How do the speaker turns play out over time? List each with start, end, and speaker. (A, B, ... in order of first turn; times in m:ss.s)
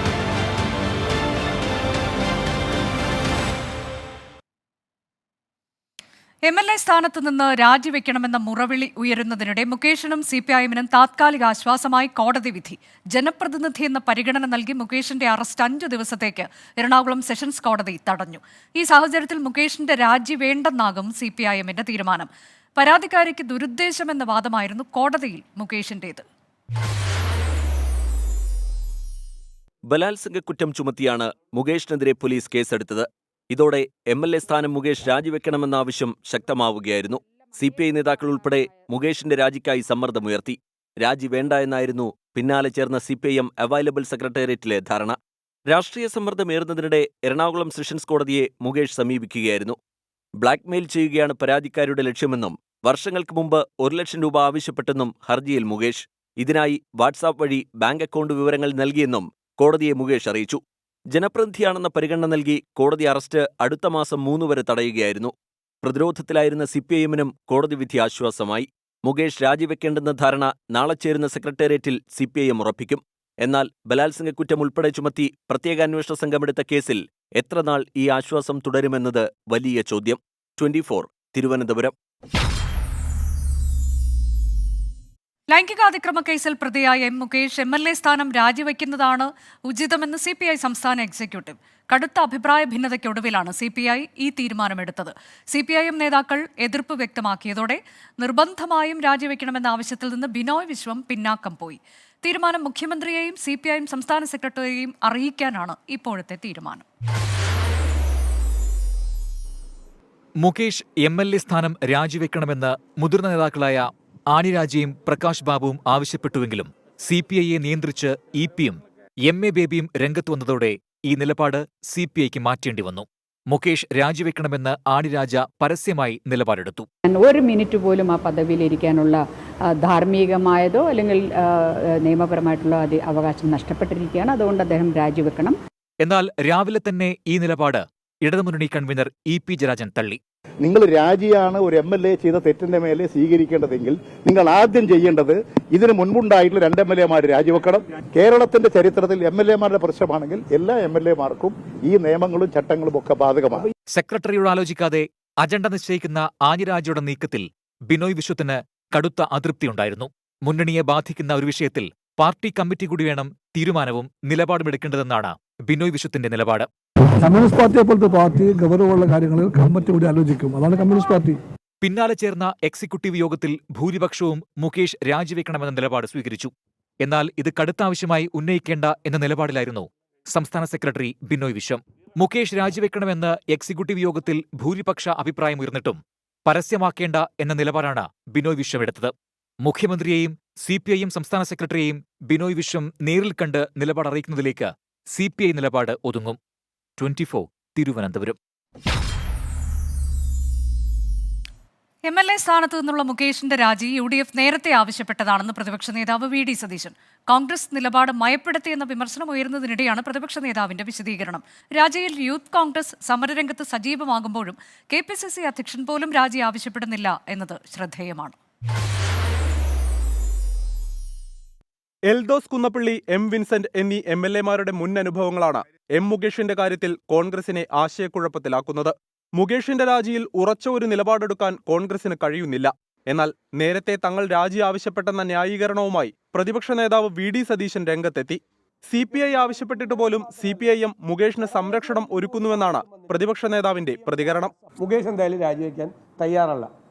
0:06.4-0:26.2 A
0:29.8-0:49.8 B
0:50.4-1:05.3 B
1:05.8-1:21.9 B
1:25.5-1:46.8 A
1:50.4-2:06.9 C
2:07.0-2:09.2 D
2:09.8-2:15.6 D
2:16.0-2:20.2 C
2:20.6-2:33.6 E
2:33.9-2:46.7 C
2:47.2-2:51.4 F
2:51.8-3:16.4 C
3:17.0-3:18.4 C
3:22.0-3:38.4 A
3:42.1-4:04.5 G
3:59.0-4:00.8 H
4:01.4-4:06.7 H